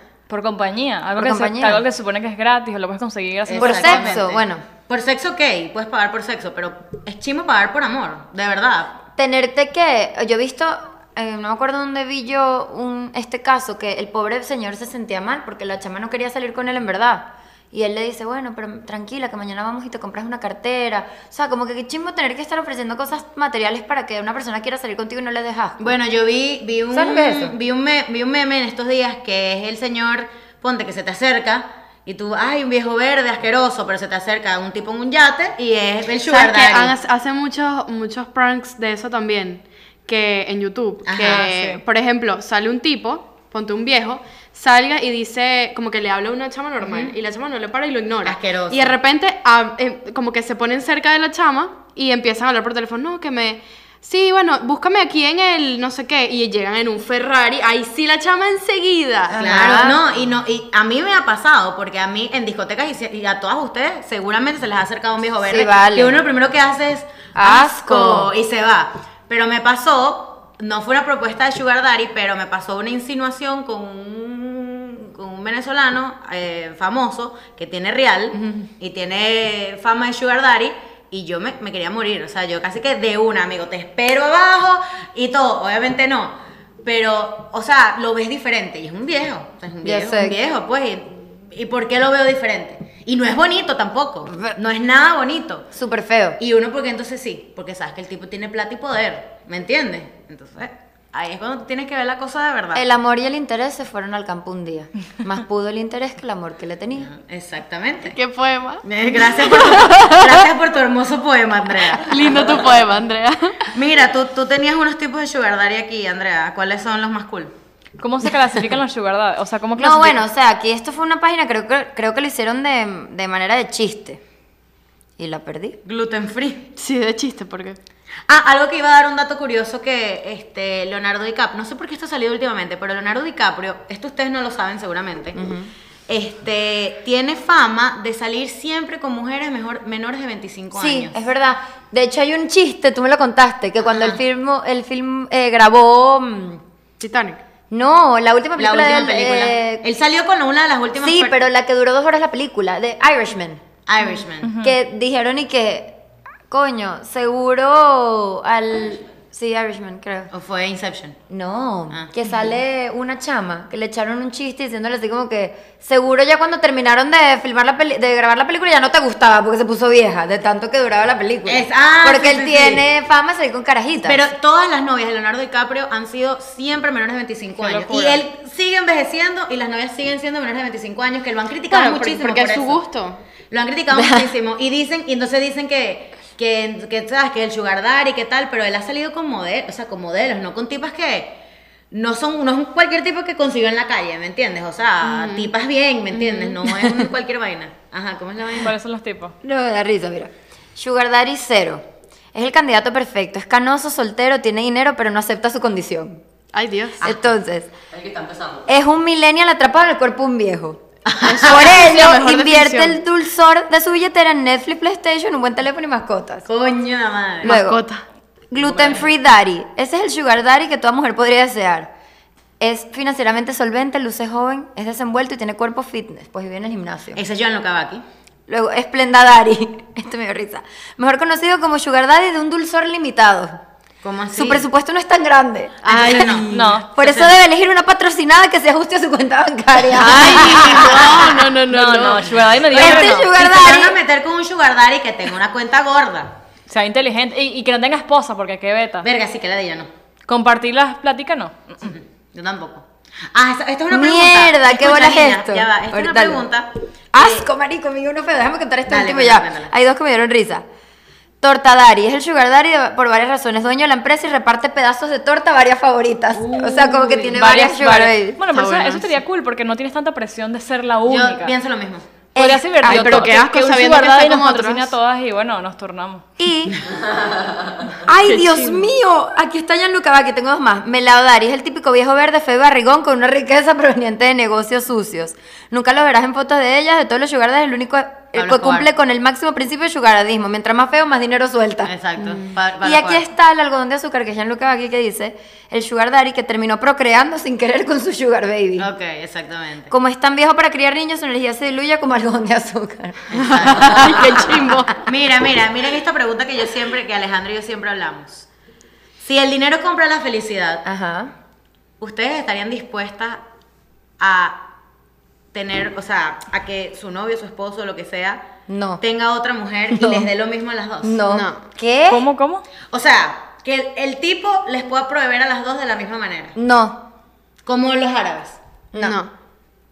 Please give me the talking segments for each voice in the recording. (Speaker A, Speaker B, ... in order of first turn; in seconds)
Speaker A: 0.3-4.2, 41.2-41.8, 118.0-120.2, 154.4-154.8, 177.6-178.2, 198.6-199.3, 236.5-236.9, 241.7-243.3, 246.7-249.1, 250.3-251.9, 267.2-271.5, 272.4-276.3, 322.1-322.6
Speaker B: 1.2-1.8, 3.6-4.6, 9.2-25.9, 26.9-27.6, 59.3-60.0, 65.5-66.2, 67.3-68.3, 89.8-90.4, 94.3-94.5, 95.7-96.4, 102.7-107.1, 119.8-124.2, 125.2-125.8, 135.3-135.7, 140.7-146.6, 147.7-149.8, 151.0-153.6, 154.6-160.3, 161.3-174.2, 183.9-184.3, 196.6-197.1, 199.4-201.8, 202.3-206.2, 207.0-207.7, 208.7-210.8, 211.4-216.5, 217.4-217.8, 218.5-221.9, 222.6-227.2, 228.5-233.6, 234.3-241.5, 242.7-244.0, 253.9-256.4, 257.1-260.6, 261.4-268.4, 272.3-273.4, 276.4-276.8, 278.0-291.9, 292.8-298.9, 299.9-305.0, 310.8-311.3, 318.7-319.0, 319.9-320.3, 321.0-322.2, 326.5-327.0, 328.9-329.2
Speaker C: 3.5-9.0, 25.8-36.9, 41.0-41.5, 46.8-47.1, 48.2-49.0, 59.4-95.7, 96.4-102.8, 107.0-108.2, 108.8-112.4, 113.7-117.5, 125.8-126.7, 128.3-135.4, 136.1-141.2, 143.9-144.2, 148.6-151.4, 153.8-154.5, 160.3-161.2, 171.4-172.8, 174.1-182.8, 183.5-191.4, 191.9-198.7, 211.1-211.7, 216.5-217.5, 227.1-228.0, 234.0-234.7, 235.8-237.3, 242.7-246.3, 249.0-249.9, 251.8-257.5, 258.9-259.7, 266.3-267.4, 271.1-272.1, 288.3-288.9, 291.8-293.2, 298.8-299.9, 303.3-304.4, 305.0-308.5, 309.2-310.9, 312.0-313.4, 314.2-314.6, 315.5-318.4, 319.0-321.2, 322.9-326.5, 327.6-328.6
Speaker D: 36.2-59.8, 108.0-108.8, 109.4-110.3, 112.0-113.6, 126.8-127.8, 147.0-147.4, 181.7-183.2, 195.0-195.5, 196.1-196.6, 206.5-207.1, 211.2-212.9, 217.4-218.0, 235.8-236.6, 239.8-242.4, 268.5-269.1, 272.8-274.9, 278.2-278.9, 303.4-305.0, 321.3-321.6, 329.0-329.3
Speaker E: 207.9-208.7, 218.6-219.1, 276.9-278.0